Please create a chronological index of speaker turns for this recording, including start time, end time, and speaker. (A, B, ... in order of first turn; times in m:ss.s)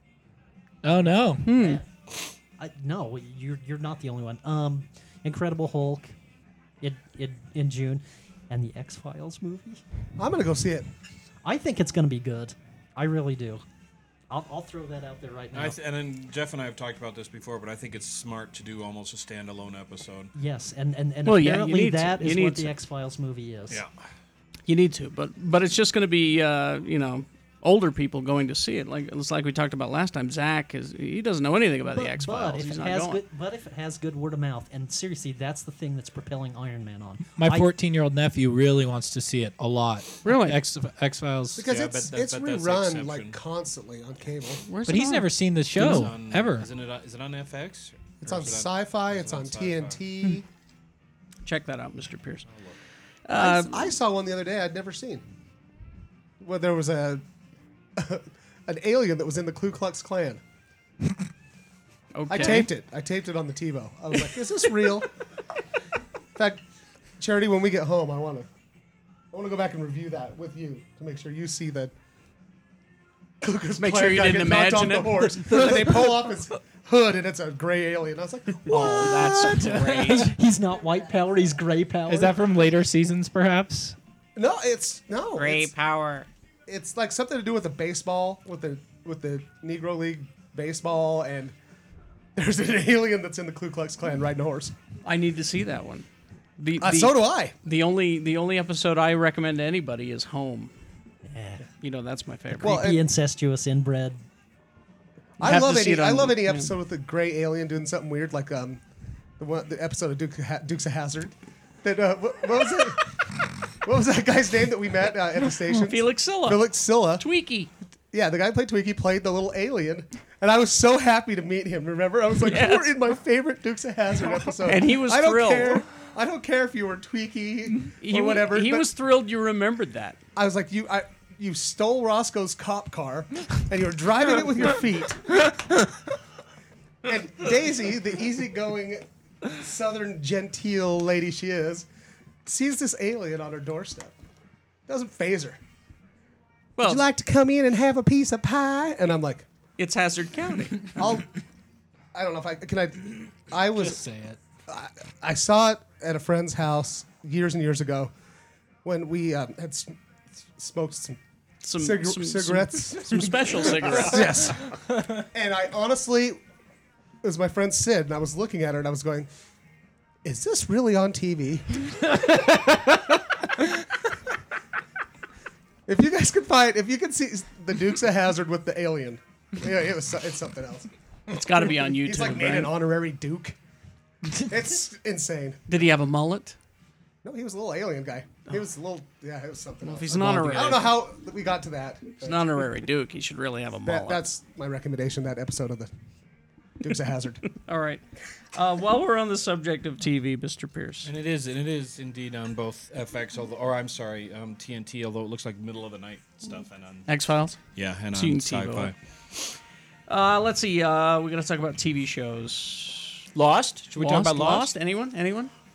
0:00.8-0:01.6 A
0:01.4-0:01.8 B
0:01.6-0:01.8 C
0:02.6-0:06.1 C
0:06.8-0:09.8 C
0:10.2-0:10.9 D
0:11.4-0:13.6 C
0:14.3-0:15.8 C
0:15.5-0:20.3 E
0:20.3-0:23.8 C
0:21.2-0:22.7 B
0:24.7-0:33.2 B
0:31.9-0:37.7 C
0:37.4-0:41.7 A
0:40.2-0:40.6 B
0:41.6-0:44.6 D
0:41.7-0:43.4 E
0:44.6-0:46.1 B
0:44.8-0:46.7 A
0:45.7-0:50.0 E
0:48.2-0:50.4 D
0:51.4-0:52.5 B
0:53.3-0:53.9 B
0:53.3-0:55.2 D
0:56.4-0:57.2 D
0:58.0-1:00.4 D
1:02.1-1:02.7 B
1:02.3-1:05.1 D
1:06.4-1:06.6 D
1:07.2-1:08.5 D
1:09.3-1:11.9 D
1:13.4-1:19.4 D
1:13.8-1:16.2 B
1:18.7-1:20.3 B
1:18.7-1:20.3 A
1:20.1-1:22.5 C
1:22.0-1:24.0 A
1:24.4-1:25.7 D
1:25.4-1:26.2 B
1:26.7-1:31.5 D
1:32.4-1:34.7 D
1:35.0-1:36.1 B
1:36.6-1:40.7 B
1:36.8-1:37.5 D
1:41.2-1:41.6 C
1:41.8-1:42.8 B
1:42.6-1:44.2 C
1:42.6-1:43.0 D
1:45.4-1:48.8 D
1:45.4-1:46.7 B
1:49.4-1:53.2 D
1:53.8-1:57.2 D
1:55.7-1:57.7 B
1:58.1-2:08.9 D
2:02.4-2:03.0 B
2:04.6-2:05.8 B
2:08.0-2:10.2 B
2:10.4-2:15.6 D
2:17.0-2:21.8 D
2:22.4-2:24.1 D
2:24.9-2:25.6 D
2:26.8-2:27.0 B
2:26.8-2:29.4 D
2:29.8-2:31.0 B
2:31.0-2:31.3 D
2:32.1-2:34.0 D
2:33.8-2:34.4 A
2:34.7-2:38.1 D
2:38.8-2:40.0 D
2:40.5-2:41.2 D
2:41.6-2:44.4 B
2:41.8-2:44.8 D
2:44.9-2:45.2 A
2:45.3-2:46.4 D
2:47.2-2:49.3 D
2:50.2-2:52.6 D
2:55.9-3:00.9 D
3:01.3-3:02.7 B
3:01.8-3:03.6 D
3:04.4-3:05.6 D
3:05.7-3:06.6 B
3:07.2-3:12.6 D
3:09.8-3:11.0 B
3:10.2-3:10.8 A
3:12.2-3:14.2 B
3:13.8-3:15.9 D
3:16.8-3:17.5 D
3:17.6-3:18.0 B
3:18.5-3:21.1 B
3:21.0-3:27.1 E
3:27.1-3:27.6 B
3:27.7-3:28.9 E
3:28.1-3:28.9 B
3:30.1-3:33.3 B
3:33.3-3:34.7 E
3:33.9-3:35.5 B